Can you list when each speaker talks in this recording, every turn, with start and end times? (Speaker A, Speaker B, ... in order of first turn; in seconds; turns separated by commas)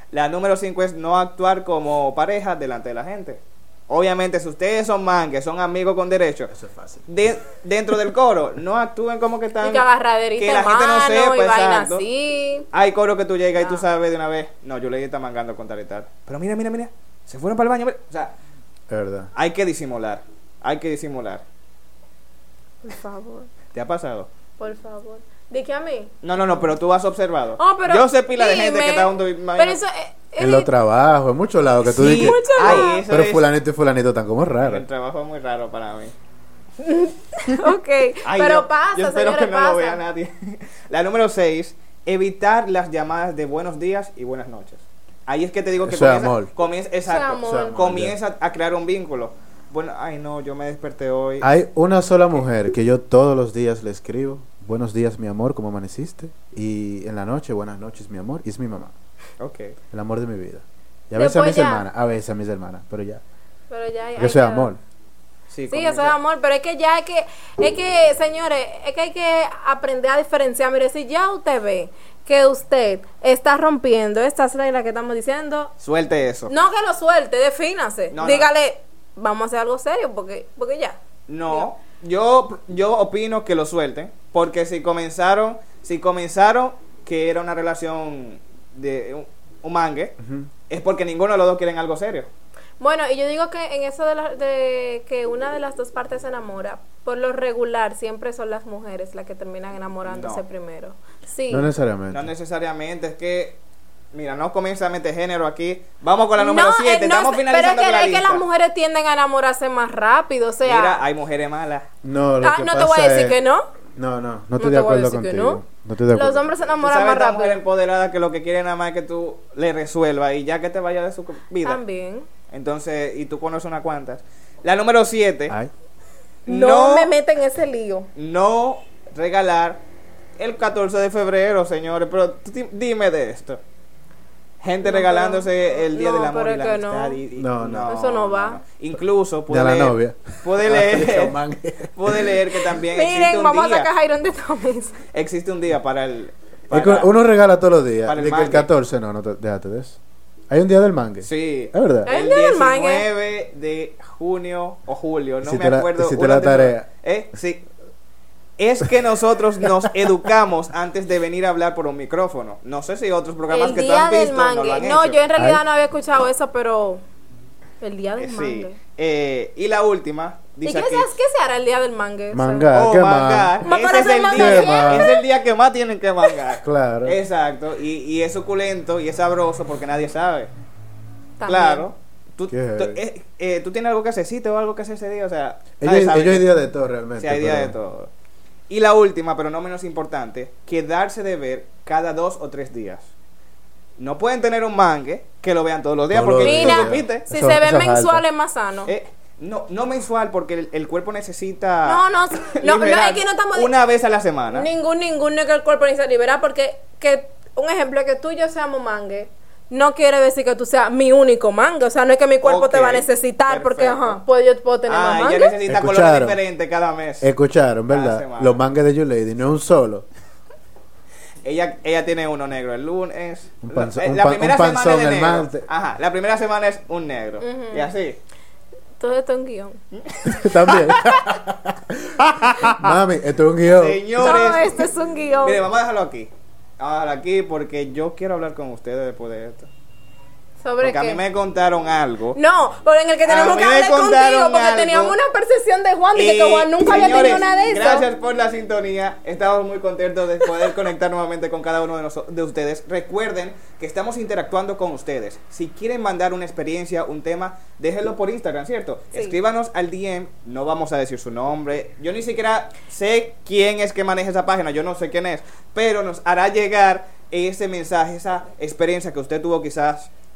Speaker A: 0.1-6.5, Speaker B: 6.5-7.0, Speaker A: 7.1-9.9, Speaker C: 9.6-12.7, Speaker A: 10.4-12.1, Speaker A: 12.7-18.3, Speaker C: 13.6-13.8, Speaker B: 18.9-19.3, Speaker A: 19.4-21.4, Speaker C: 22.8-23.5, Speaker A: 23.7-24.3, Speaker C: 24.6-26.1, Speaker A: 26.2-29.8, Speaker C: 27.6-30.7, Speaker B: 30.4-34.8, Speaker A: 31.8-33.5, Speaker C: 32.0-33.0, Speaker A: 34.6-36.1, Speaker C: 36.8-40.0, Speaker A: 38.2-51.5, Speaker B: 45.8-46.5, Speaker C: 47.1-47.8, Speaker B: 47.4-48.1, Speaker B: 51.4-58.9, Speaker A: 59.4-59.8, Speaker B: 59.9-63.2, Speaker C: 61.1-61.9, Speaker C: 63.7-64.8, Speaker B: 64.2-64.8, Speaker A: 65.5-66.2, Speaker C: 65.7-75.7, Speaker A: 75.8-76.5, Speaker C: 76.5-81.0, Speaker A: 78.1-78.5, Speaker A: 81.3-90.2, Speaker B: 90.2-90.5, Speaker A: 90.7-92.3, Speaker C: 92.8-101.7, Speaker A: 100.0-100.4, Speaker B: 101.5-102.3, Speaker A: 102.1-103.6, Speaker A: 104.1-108.5, Speaker C: 106.4-111.0, Speaker A: 110.6-111.9, Speaker B: 112.0-113.4, Speaker C: 112.4-113.7, Speaker B: 114.0-116.5, Speaker C: 114.6-115.6, Speaker C: 116.1-117.6, Speaker A: 116.8-121.8, Speaker C: 121.6-122.3, Speaker A: 122.5-125.6, Speaker A: 126.5-127.1, Speaker C: 126.5-128.1, Speaker A: 128.2-129.8, Speaker A: 130.4-133.6, Speaker A: 134.6-141.4, Speaker C: 134.8-137.2, Speaker B: 137.4-138.0, Speaker C: 137.9-138.6, Speaker B: 139.5-142.4, Speaker A: 142.0-143.9, Speaker C: 142.8-145.0, Speaker A: 145.1-147.1, Speaker B: 146.7-150.0, Speaker A: 148.0-148.7, Speaker B: 150.5-152.1, Speaker A: 151.2-157.7, Speaker C: 152.1-153.1, Speaker B: 155.4-156.9, Speaker A: 158.6-165.2, Speaker C: 163.5-167.0, Speaker B: 165.4-165.6, Speaker C: 167.8-168.8, Speaker A: 168.2-171.1, Speaker C: 170.6-172.7, Speaker B: 172.3-173.5, Speaker A: 172.7-180.5, Speaker C: 173.6-175.2, Speaker B: 174.3-175.1, Speaker B: 176.6-177.2, Speaker C: 181.4-181.9, Speaker A: 181.4-186.5, Speaker B: 182.5-183.0, Speaker B: 185.8-187.8, Speaker A: 187.2-188.1, Speaker A: 188.7-193.1, Speaker A: 194.0-197.3, Speaker B: 196.1-198.2, Speaker C: 196.4-198.9, Speaker A: 198.9-204.7, Speaker C: 201.8-203.7, Speaker C: 204.5-215.6, Speaker A: 212.4-214.2, Speaker A: 214.9-217.3, Speaker B: 215.7-216.4, Speaker B: 217.2-220.1, Speaker A: 217.9-218.6, Speaker A: 221.4-228.2, Speaker B: 223.6-225.7, Speaker C: 227.4-227.9, Speaker C: 229.0-229.8, Speaker A: 230.1-231.3, Speaker B: 230.2-234.5, Speaker A: 232.2-233.0, Speaker A: 233.7-234.9, Speaker C: 234.2-235.6, Speaker A: 235.4-239.7, Speaker C: 240.6-241.2, Speaker A: 240.8-242.4, Speaker C: 242.3-248.1, Speaker A: 243.3-245.2, Speaker A: 246.2-270.1